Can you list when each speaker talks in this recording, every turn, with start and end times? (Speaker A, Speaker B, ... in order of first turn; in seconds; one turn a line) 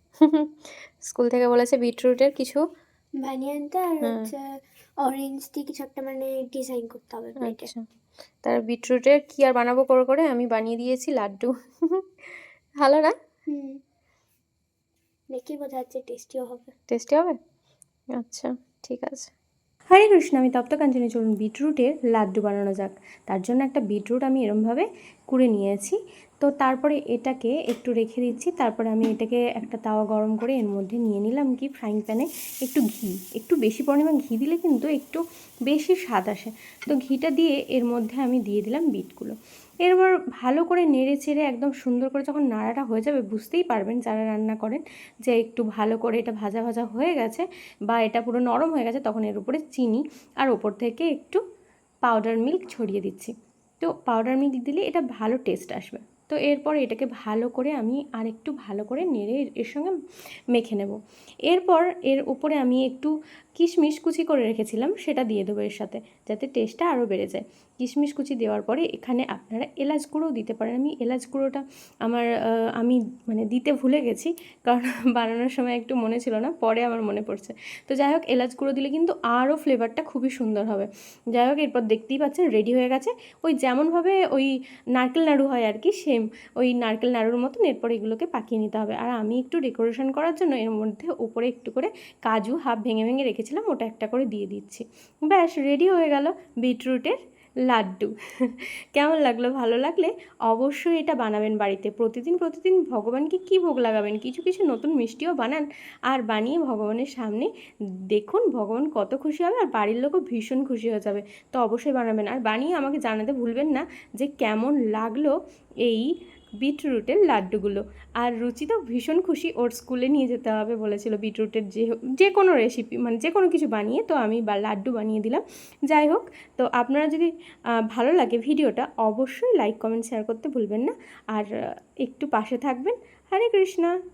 Speaker A: 0.2-2.6
Speaker B: 3.2-4.4
Speaker A: 4.0-4.3
Speaker B: 5.0-7.7
Speaker A: 7.4-7.8
Speaker A: 8.4-12.0
Speaker A: 12.8-13.1
Speaker B: 13.5-13.8
Speaker B: 15.3-16.7
Speaker A: 16.9-17.4
Speaker A: 18.2-19.3
Speaker A: 19.9-39.3
Speaker A: 39.9-51.4
Speaker A: 52.0-59.9
Speaker A: 60.5-61.0
Speaker A: 61.5-72.2
Speaker A: 72.8-97.2
Speaker A: 97.7-107.5
Speaker A: 108.1-115.3
Speaker A: 116.6-127.3
Speaker A: 127.9-131.5
Speaker A: 132.0-133.9